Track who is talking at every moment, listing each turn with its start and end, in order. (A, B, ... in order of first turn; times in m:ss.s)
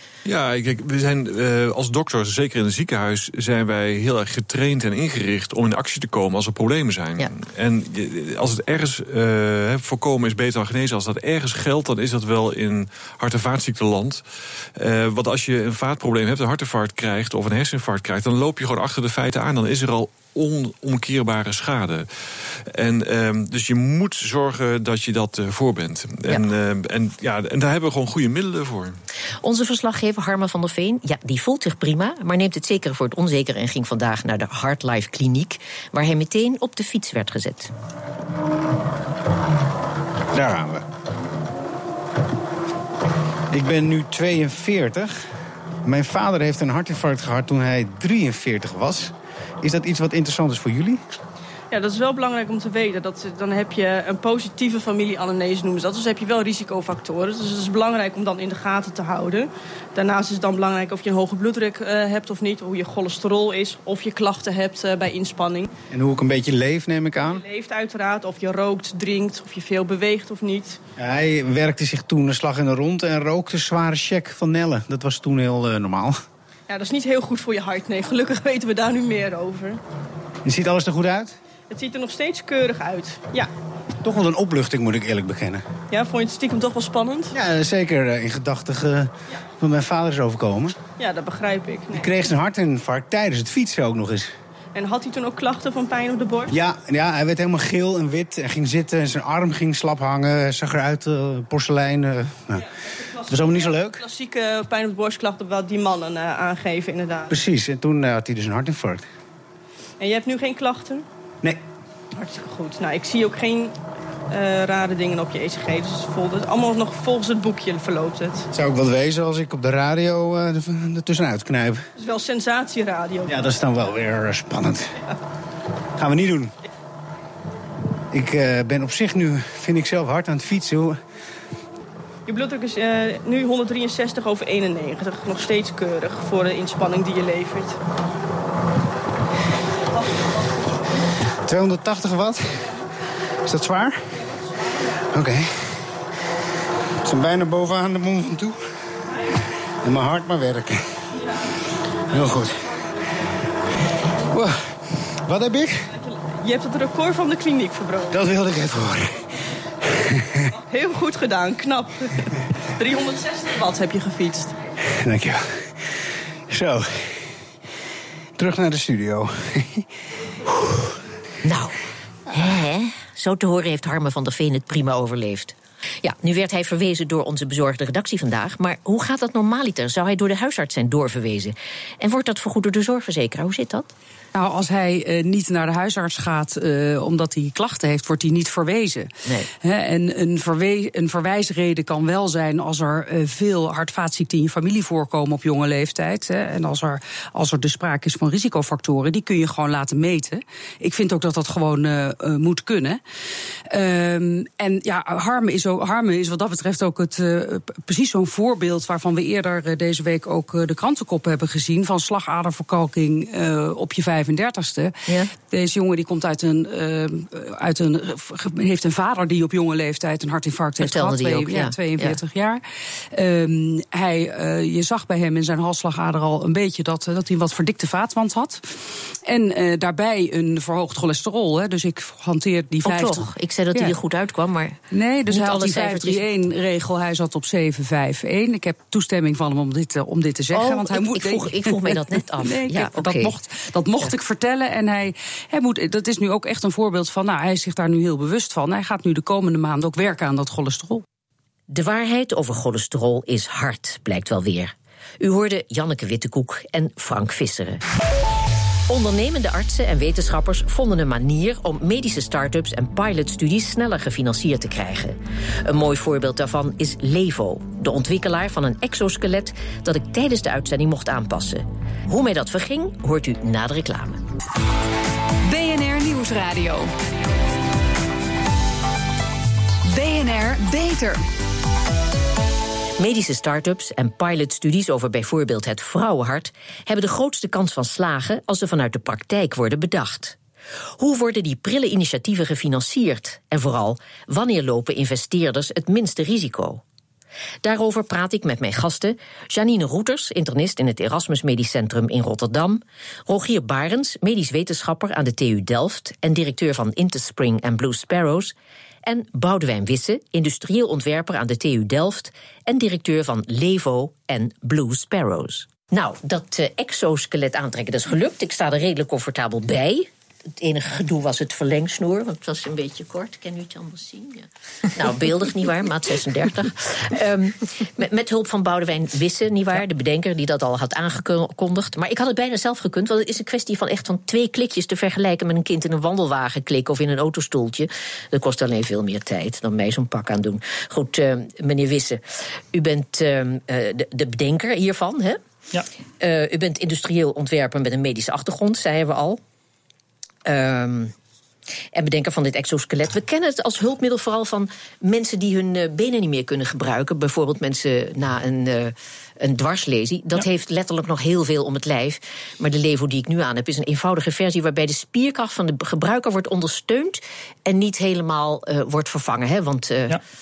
0:00.2-0:14.2 A
0:14.8-0:22.1 A
0:22.7-0:29.0 A
0:29.4-0:37.7 B
0:40.3-0:40.8 C
0:43.5-0:45.2 C
0:45.8-0:51.0 C
0:51.7-1:05.7 D
1:05.9-1:07.4 C
1:07.2-1:10.8 D
1:11.0-1:16.2 C
1:16.7-1:19.8 D
1:20.4-1:21.4 C
1:21.7-1:23.5 D
1:24.0-1:25.6 C
1:25.9-1:27.3 D
1:27.3-1:30.8 C
1:31.0-1:32.1 D
1:31.9-1:34.3 C
1:34.8-1:36.5 D
1:36.5-1:42.7 C
1:43.1-1:47.3 D
1:43.3-1:44.0 C
1:47.3-1:49.0 C
1:50.0-1:51.0 D
1:52.1-1:53.8 D
1:54.3-1:58.5 D
1:58.5-2:01.8 C
2:02.0-2:03.5 D
2:03.3-2:04.9 C
2:06.0-2:06.6 C
2:08.1-2:11.0 C
2:12.3-2:17.8 D
2:21.5-2:22.6 C
2:23.5-2:24.0 C
2:25.1-2:25.7 C
2:27.0-2:28.6 C
2:29.8-2:30.8 C
2:32.1-2:32.6 C
2:34.3-2:34.6 C
2:35.2-2:35.9 C
2:35.9-2:38.1 D
2:38.1-2:39.2 C
2:39.8-2:40.4 C
2:40.7-2:44.6 D
2:44.8-2:45.9 C
2:46.5-2:47.3 C
2:48.4-2:49.9 C
2:51.4-2:51.8 B
2:52.3-3:03.9 B
3:04.4-3:09.1 E
3:09.6-3:23.0 E
3:23.7-3:54.0 E
3:40.8-3:42.2 B
3:52.8-3:56.2 B
3:54.9-4:11.0 E
4:00.5-4:03.3 B
4:11.7-4:17.8 B
4:18.9-4:34.2 B
4:35.5-4:36.9 F
4:39.8-4:41.2 F
4:43.0-4:50.4 B
4:51.0-4:56.8 B
4:57.6-5:45.4 B
5:46.2-5:49.4 B
5:50.4-5:51.1 B
5:51.9-6:10.2 B